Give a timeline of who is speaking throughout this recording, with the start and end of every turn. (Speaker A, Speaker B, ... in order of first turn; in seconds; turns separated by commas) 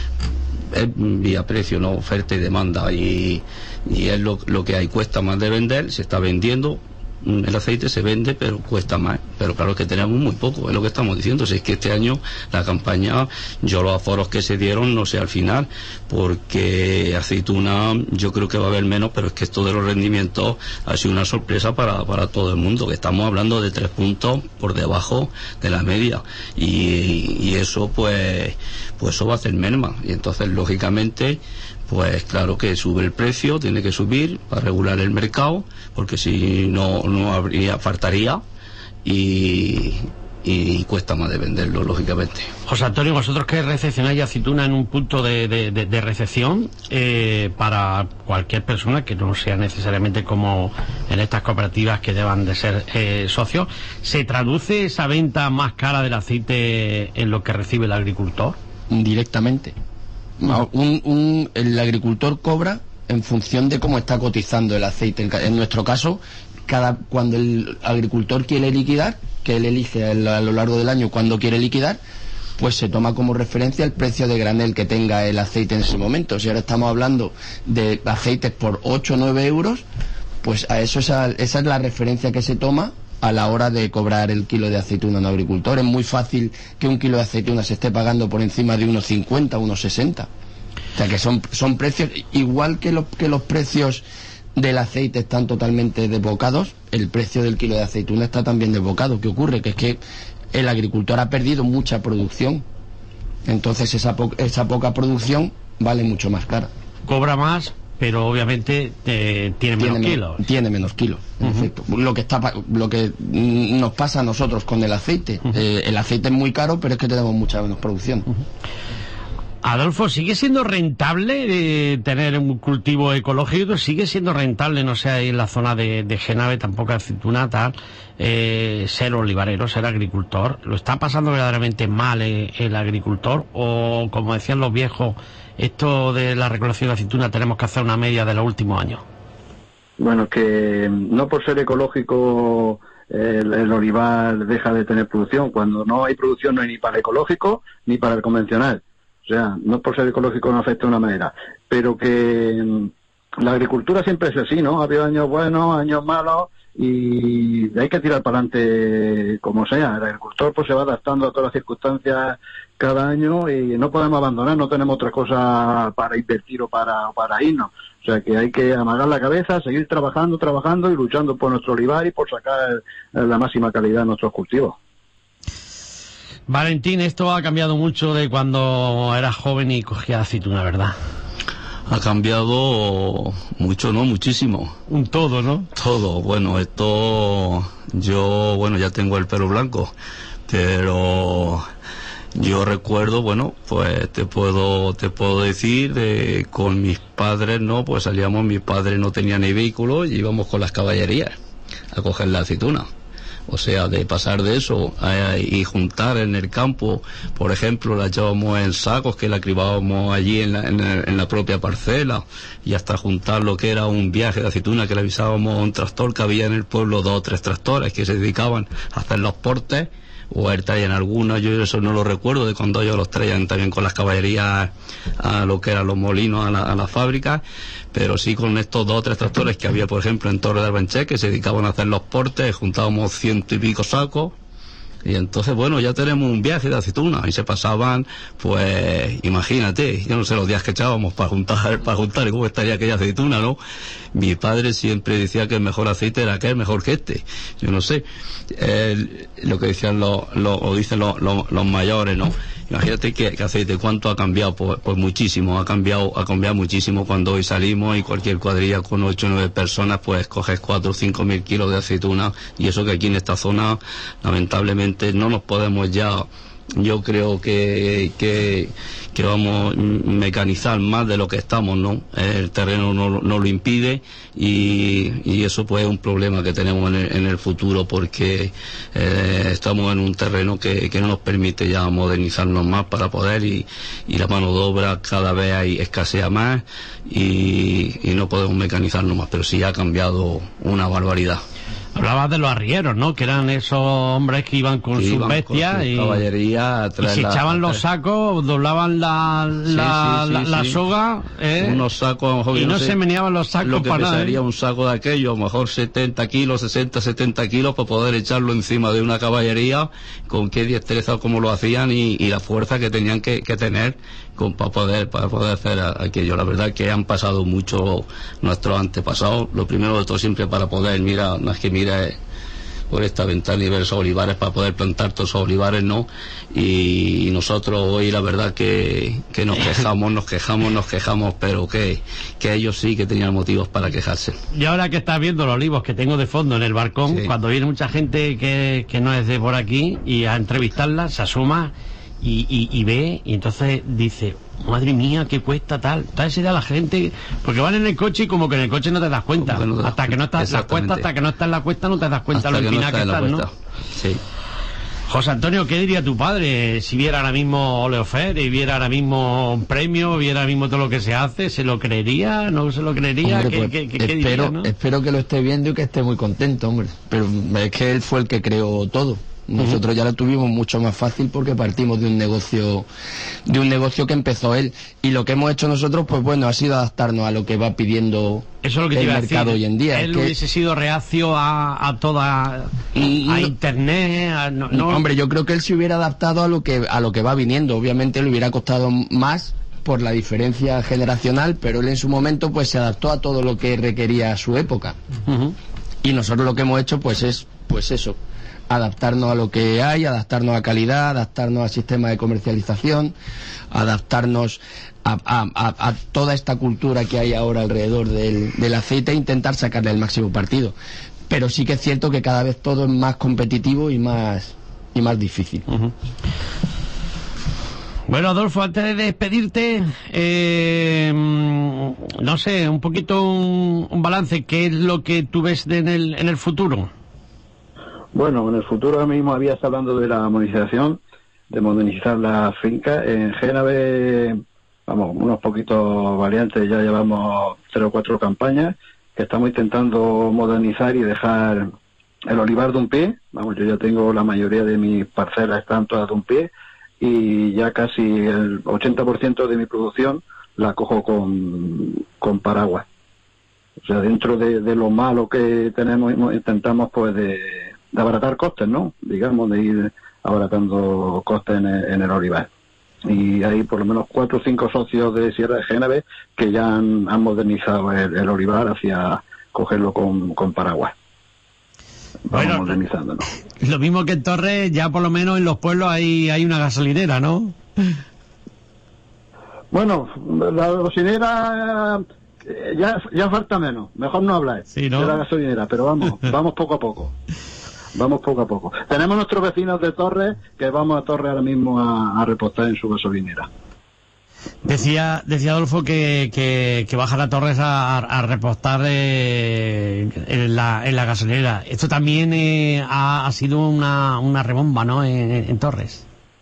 Speaker A: 0.7-38.4, Speaker A: 39.0-42.5, Speaker B: 42.7-58.6, Speaker C: 58.9-59.7, Speaker C: 60.4-72.0, Speaker C: 72.6-79.8, Speaker C: 80.4-90.3, Speaker C: 90.9-94.0, Speaker C: 94.5-100.0, Speaker C: 100.5-102.6, Speaker C: 103.4-106.7, Speaker B: 107.1-110.4, Speaker C: 109.8-118.3, Speaker B: 119.6-139.0, Speaker D: 140.0-174.8, Speaker B: 176.5-180.9, Speaker A: 181.9-184.7, Speaker B: 184.9-185.7, Speaker A: 185.8-189.9, Speaker A: 190.5-191.6, Speaker A: 192.3-201.3, Speaker A: 201.9-202.8, Speaker A: 203.5-227.4, Speaker A: 227.9-234.3, Speaker A: 235.0-243.6, Speaker A: 244.1-291.4, Speaker B: 291.9-296.2, Speaker A: 294.9-297.8, Speaker B: 297.0-301.8, Speaker A: 299.7-300.8, Speaker A: 301.6-303.0, Speaker B: 302.5-304.4, Speaker A: 303.6-322.2, Speaker A: 322.9-334.4, Speaker B: 334.5-353.4, Speaker A: 349.4-351.1, Speaker A: 352.3-354.2, Speaker B: 355.1-364.7, Speaker C: 363.2-372.9, Speaker C: 373.4-380.3, Speaker B: 378.6-385.0, Speaker C: 382.9-383.5, Speaker C: 384.7-394.9, Speaker B: 395.3-395.5, Speaker C: 396.0-398.2, Speaker C: 398.7-403.1, Speaker C: 403.7-410.7, Speaker C: 411.3-415.6, Speaker B: 418.1-426.9, Speaker D: 428.1-441.7, Speaker D: 442.3-446.5, Speaker D: 447.0-452.9, Speaker D: 453.8-462.5, Speaker D: 463.1-470.9, Speaker D: 472.3-473.2, Speaker B: 472.3-472.8, Speaker B: 473.6-477.6, Speaker D: 479.7-487.1, Speaker B: 484.7-485.2, Speaker D: 487.9-493.5, Speaker B: 494.6-506.0